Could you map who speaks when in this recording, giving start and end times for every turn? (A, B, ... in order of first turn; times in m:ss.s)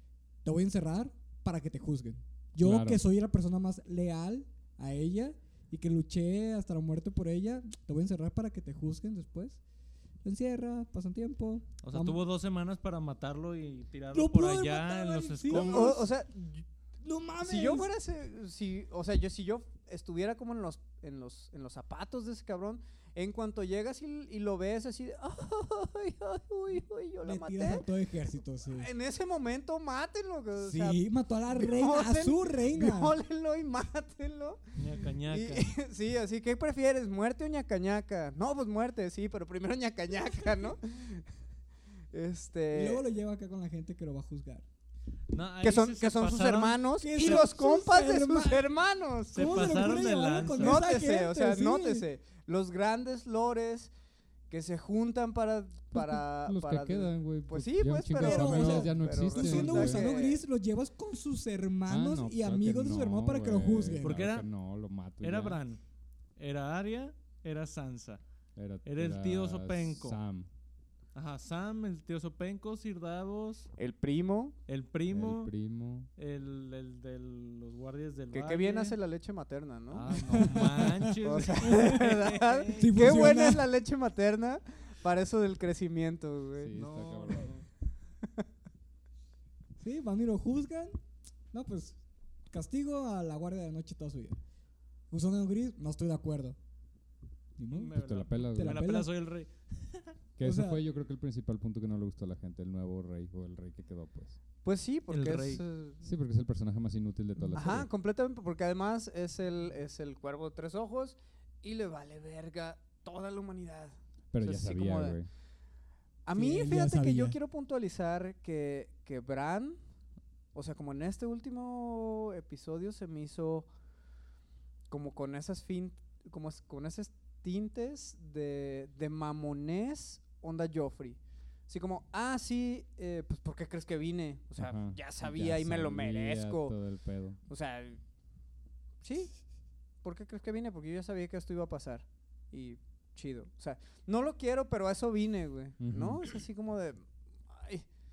0:00.4-0:09.6 A
0:02.6-0:03.0 B
0:10.2-0:12.2 A
0:11.8-0:16.1 C
0:14.1-0:16.1 A
0:15.5-0:16.6 D
0:17.0-0:17.9 A
0:17.4-0:27.9 D
0:27.2-0:28.9 A
0:28.7-0:34.6 D
0:30.6-0:33.2 A
0:34.8-0:35.7 C
0:35.2-0:41.2 D
0:42.1-0:43.0 D
0:42.7-0:44.6 A
0:45.3-0:47.4 C
0:45.6-0:49.7 D
0:47.0-0:48.7 A
0:49.3-0:50.9 C
0:49.3-0:52.0 A
0:50.6-0:53.9 D
0:54.5-1:00.4 D
0:55.9-1:00.1 B
0:58.1-1:04.2 A
1:01.9-1:05.6 B
1:04.0-1:04.5 C
1:05.2-1:05.8 C
1:06.4-1:08.2 C
1:08.6-1:10.5 B
1:08.8-1:10.2 C
1:11.1-1:13.7 C
1:13.8-1:14.5 D
1:14.7-1:15.5 C
1:15.1-1:16.1 B
1:16.2-1:19.0 C
1:18.3-1:20.5 D
1:19.9-1:23.3 C
1:20.1-1:21.1 A
1:21.2-1:26.7 D
1:22.8-1:23.7 A
1:26.6-1:27.6 B
1:26.7-1:27.6 C
1:29.8-1:31.0 A
1:31.5-1:32.0 A
1:32.5-1:34.4 A
1:35.1-1:36.6 A
1:37.6-1:39.1 A
1:37.7-1:40.1 C
1:37.9-1:38.9 B
1:40.4-1:44.4 B
1:40.4-1:40.8 A
1:44.6-1:46.0 D
1:45.1-1:45.6 C
1:46.0-1:47.9 B
1:47.4-1:47.8 A
1:47.5-1:55.2 D
1:54.3-1:55.3 B
1:56.2-1:59.8 D
1:56.3-1:57.4 A
2:00.5-2:03.7 D
2:04.9-2:16.8 D
2:14.6-2:17.4 B
2:17.5-2:18.0 D
2:19.0-2:19.3 D
2:20.0-2:27.8 D
2:25.8-2:26.2 B